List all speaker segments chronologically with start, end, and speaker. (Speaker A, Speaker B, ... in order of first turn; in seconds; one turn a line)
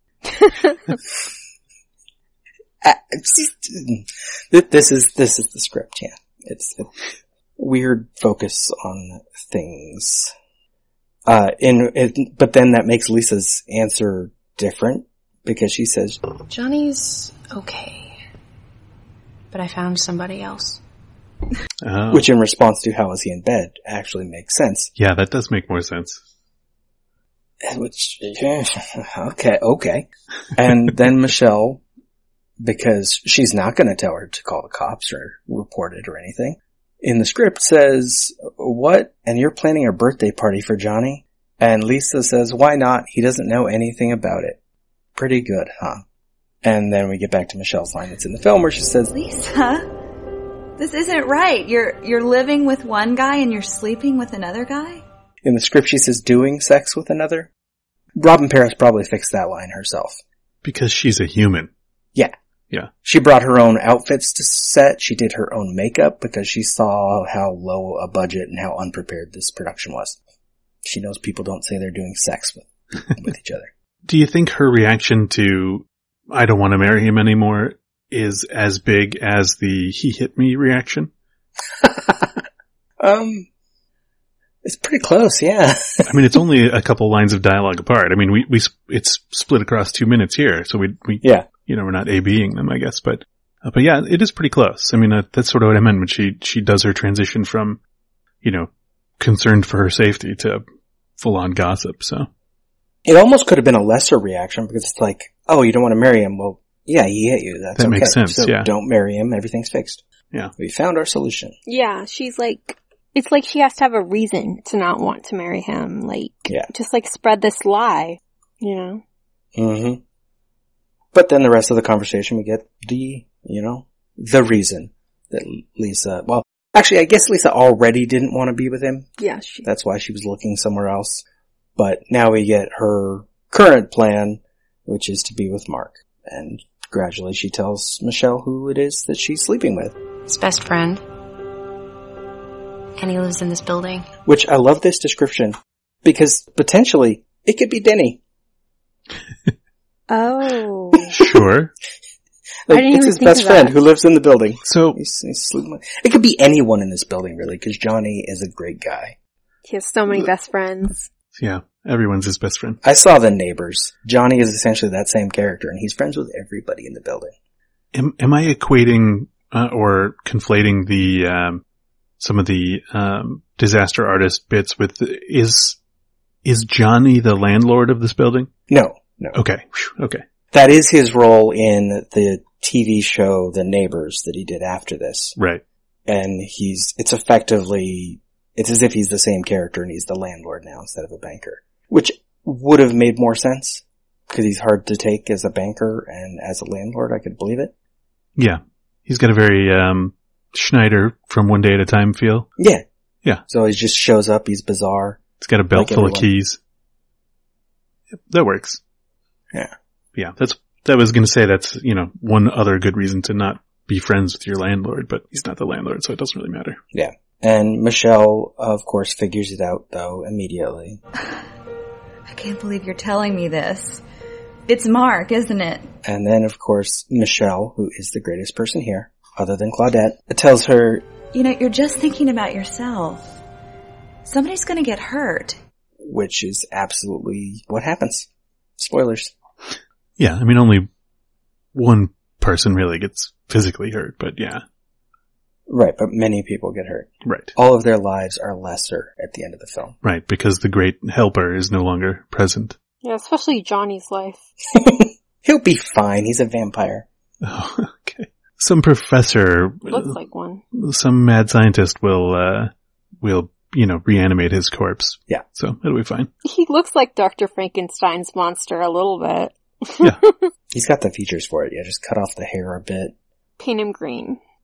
Speaker A: 2.8-6.9
Speaker A: 7.6-10.3
Speaker A: 11.3-16.2
Speaker B: 16.5-18.1
Speaker B: 19.5-20.8
Speaker C: 21.8-22.3
Speaker A: 22.1-24.9
Speaker C: 24.9-26.2
Speaker A: 27.6-31.8
Speaker A: 32.6-44.6
Speaker A: 45.1-46.0
Speaker A: 46.6-49.1
Speaker D: 49.1-49.9
Speaker D: 50.8-55.0
Speaker A: 55.4-57.5
Speaker A: 58.2-60.2
Speaker C: 60.6-61.7
Speaker A: 63.0-70.2
Speaker A: 70.8-73.7
Speaker C: 74.0-81.1
Speaker A: 81.8-82.3
Speaker A: 83.0-83.5
Speaker A: 84.6-86.1
Speaker C: 86.0-97.8
Speaker A: 91.2-91.5
Speaker C: 98.4-98.7
Speaker C: 99.2-100.6
Speaker C: 101.2-102.3
Speaker A: 103.0-110.0
Speaker C: 107.8-108.7
Speaker A: 110.6-111.5
Speaker E: 111.7-119.0
Speaker A: 119.5-120.0
Speaker A: 121.1-129.1
Speaker E: 129.2-129.7
Speaker A: 129.6-131.2
Speaker A: 131.8-139.9
Speaker B: 140.3-141.0
Speaker B: 143.0-144.1
Speaker A: 144.2-148.2
Speaker E: 150.1-151.1
Speaker C: 151.1-151.7
Speaker A: 152.7-159.2
Speaker E: 152.7-153.8
Speaker C: 154.6-155.0
Speaker E: 159.6-161.1
Speaker C: 161.3-162.8
Speaker A: 162.8-167.3
Speaker C: 167.9-171.6
Speaker C: 172.2-175.8
Speaker C: 176.4-178.5
Speaker A: 178.7-179.4
Speaker C: 179.3-180.2
Speaker A: 180.5-185.3
Speaker C: 185.4-185.6
Speaker A: 186.1-197.7
Speaker C: 198.4-202.5
Speaker A: 202.6-202.8
Speaker A: 203.5-206.3
Speaker C: 205.4-206.6
Speaker C: 208.1-208.8
Speaker C: 210.1-216.8
Speaker A: 216.9-221.0
Speaker D: 222.3-224.0
Speaker D: 224.7-225.9
Speaker A: 226.0-231.1
Speaker D: 231.3-233.4
Speaker D: 234.2-235.6
Speaker A: 236.0-239.3
Speaker C: 240.2-240.9
Speaker C: 241.7-244.6
Speaker A: 245.7-249.9
Speaker C: 247.2-247.5
Speaker C: 250.0-252.8
Speaker E: 253.0-254.4
Speaker A: 254.7-257.1
Speaker C: 257.4-260.1
Speaker E: 259.9-260.6
Speaker C: 260.7-266.3
Speaker E: 266.4-270.5
Speaker A: 270.7-273.1
Speaker E: 273.6-274.4